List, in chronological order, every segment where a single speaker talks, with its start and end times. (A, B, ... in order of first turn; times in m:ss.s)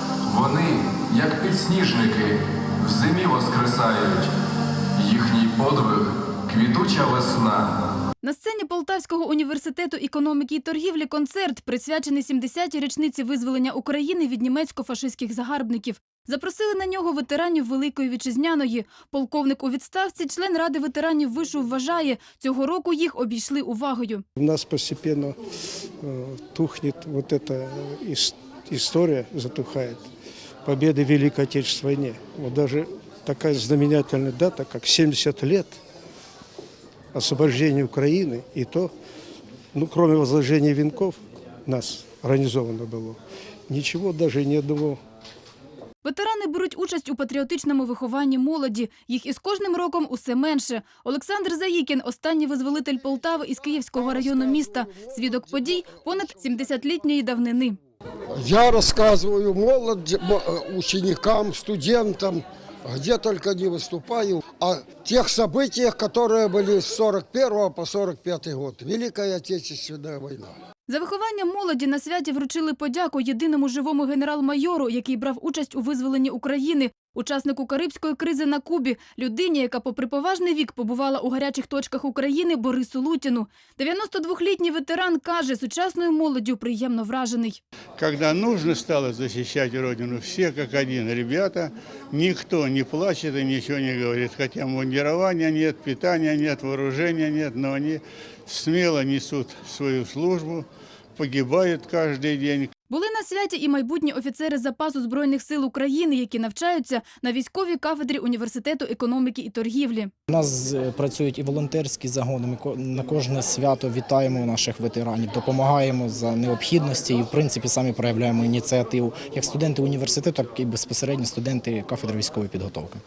0:00.2-0:04.3 A
0:05.0-0:07.8 A
0:08.2-0:24.2 B
0:24.4-0:25.4 C
0:26.0-0:30.1 C
0:30.6-0:35.8 C
0:37.1-0:38.9 C
0:39.7-0:43.2 C
0:43.7-0:45.0 C
0:46.0-0:57.8 B
0:58.3-1:10.5 D
1:10.9-1:27.6 B
1:28.0-1:42.7 E
1:42.9-1:50.1 B
1:50.3-2:03.0 F